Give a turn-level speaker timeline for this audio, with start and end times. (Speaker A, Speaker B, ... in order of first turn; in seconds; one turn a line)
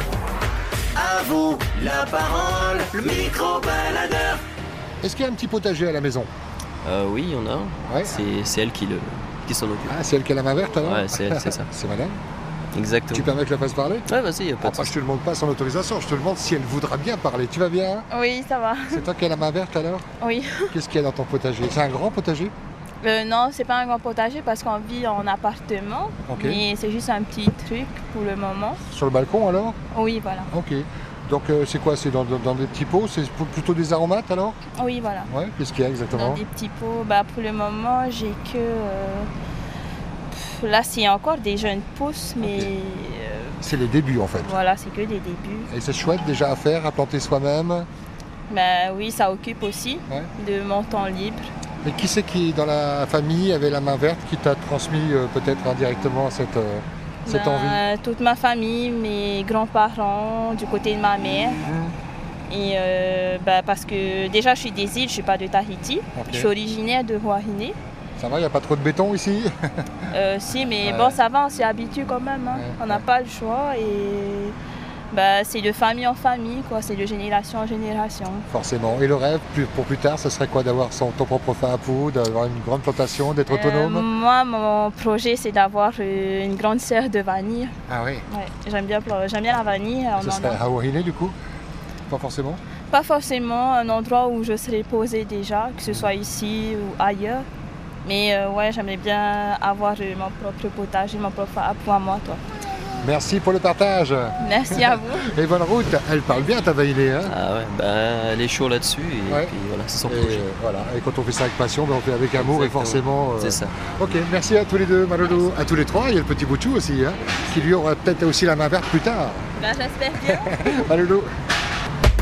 Speaker A: 0.9-4.4
Speaker B: 5.0-6.3
Speaker C: 6.8-9.9
Speaker B: 7.9-8.2
Speaker B: 9.9-12.2
Speaker C: 10.8-11.7
Speaker C: 12.7-13.3
Speaker B: 13.1-14.1
Speaker C: 14.1-14.9
Speaker B: 14.6-18.1
Speaker D: 18.1-19.0
Speaker B: 18.9-20.0
Speaker D: 20.2-20.7
Speaker B: 20.7-22.5
Speaker D: 23.0-28.8
Speaker B: 26.3-26.6
Speaker B: 28.9-29.8
Speaker D: 29.9-30.5
Speaker B: 30.5-34.6
Speaker D: 34.7-35.3
Speaker B: 35.3-36.4
Speaker D: 36.1-39.3
Speaker D: 40.3-43.6
Speaker B: 42.4-42.7
Speaker B: 43.6-44.5
Speaker D: 44.4-45.7
Speaker B: 45.7-47.9
Speaker D: 48.5-51.5
Speaker B: 51.8-57.8
Speaker D: 57.2-61.6
Speaker B: 61.6-61.9
Speaker D: 62.5-67.8
Speaker B: 66.1-66.5
Speaker B: 68.2-70.1
Speaker D: 70.1-74.5
Speaker B: 70.8-71.2
Speaker B: 72.5-73.0
Speaker D: 75.1-78.5
Speaker B: 78.5-84.1
Speaker D: 83.5-87.7
Speaker B: 87.9-88.2
Speaker D: 88.3-90.6
Speaker B: 90.2-91.3
Speaker B: 92.1-92.6
Speaker D: 92.9-97.5
Speaker D: 98.0-102.4
Speaker B: 103.0-107.3
Speaker D: 104.4-105.3
Speaker C: 107.2-110.4
Speaker B: 109.3-109.5
Speaker B: 110.0-119.4
Speaker C: 112.3-113.8
Speaker D: 117.2-117.5
Speaker D: 119.6-120.7
Speaker B: 120.2-121.3